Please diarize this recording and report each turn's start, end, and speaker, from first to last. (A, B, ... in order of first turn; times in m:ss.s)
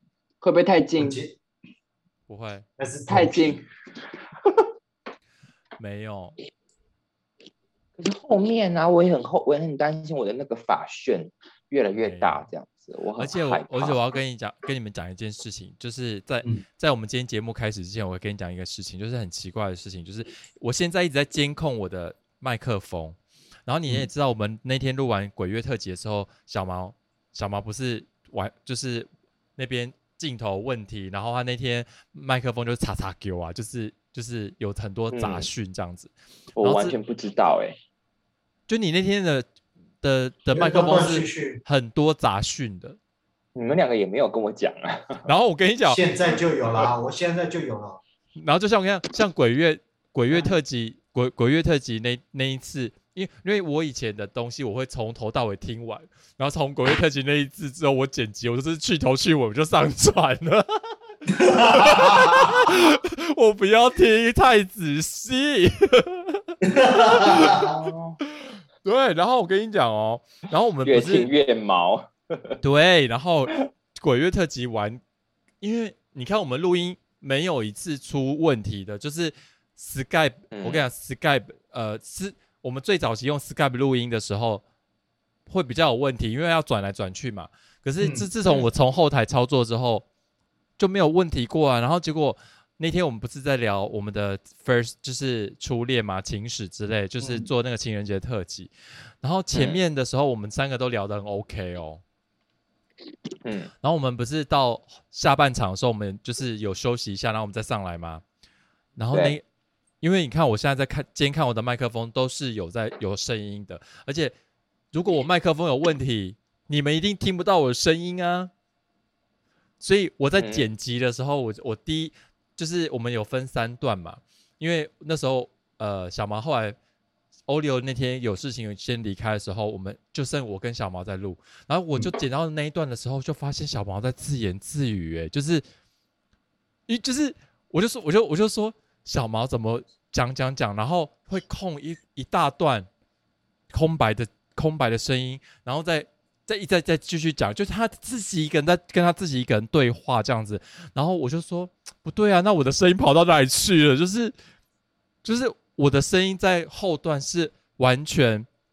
0:00.4-0:01.2 A
0:01.0-0:01.4 B
0:02.3-0:02.6 C
0:02.8-0:03.6 B
0:03.1-0:03.6 A
0:05.8-0:06.4 C
0:08.0-0:14.0 A
0:11.9-0:12.5 C
0:13.2-0:37.0 C
0:35.1-0:35.5 A
0:36.6-0:37.8 A
0:38.7-0:39.4 C
0:40.0-0:43.0 C
0:40.5-0:41.6 B
0:43.5-0:45.2 A
0:45.2-0:46.0 C
0:45.9-0:48.0 B
0:48.4-1:00.9 C
1:01.3-1:02.8 B
1:01.7-1:06.5 C
1:06.6-1:07.7 B
1:07.0-1:07.7 C
1:07.2-1:08.2 A
1:08.4-1:11.3 C
1:10.8-1:12.6 A
1:12.6-1:15.0 C
1:15.6-1:24.6 C
1:20.5-1:20.9 A
1:25.5-1:30.0 C
1:28.0-1:28.3 B
1:30.8-1:42.0 C
1:39.5-1:39.8 A
1:43.4-1:43.7 A
1:43.8-1:48.2 C
1:49.0-1:49.4 C
1:49.1-1:49.4 A
1:50.0-1:54.3 C
1:54.9-1:58.5 C
1:59.8-2:06.8 C
2:00.4-2:00.7 A
2:07.5-2:15.6 C
2:16.9-2:22.9 C
2:23.7-2:34.3 C
2:35.2-2:38.5 C